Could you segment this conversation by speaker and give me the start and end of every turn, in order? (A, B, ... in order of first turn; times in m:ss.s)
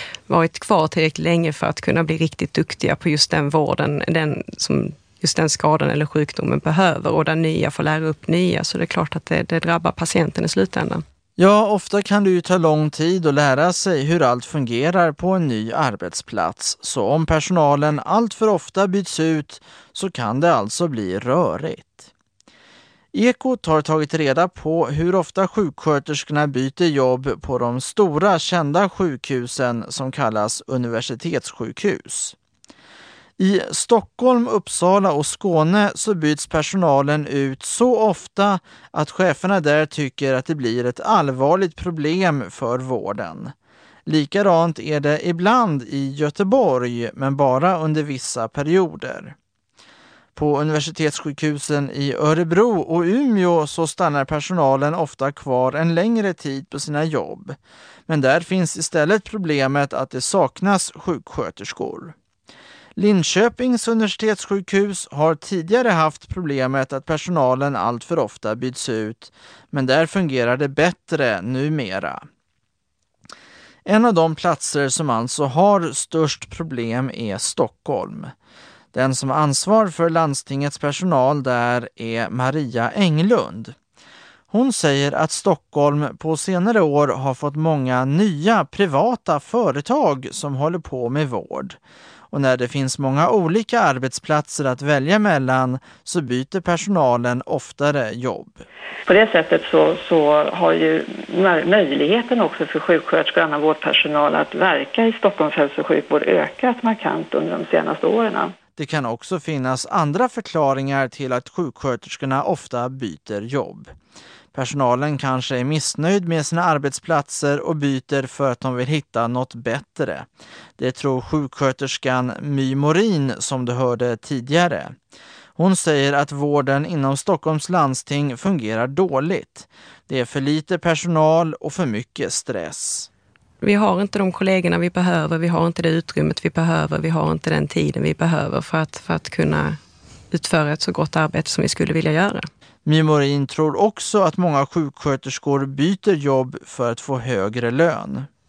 0:00.3-0:11.0 A
0:11.4-0:22.1 B
0:23.1-0:32.4 B
0:33.4-0:43.5 B
0:44.0-0:49.3 B
0:50.3-0:57.6 B
0:58.1-1:02.1 B
1:03.0-1:12.2 B
1:13.8-1:18.3 B
1:18.9-1:23.8 B
1:24.5-1:31.8 B
1:32.3-1:38.6 B
1:39.1-1:48.5 C
1:48.8-1:53.9 B
1:54.5-2:00.3 B
2:00.8-2:05.0 B
2:05.6-2:13.1 B
2:13.6-2:19.8 A
2:20.3-2:22.5 A
2:22.8-2:28.3 B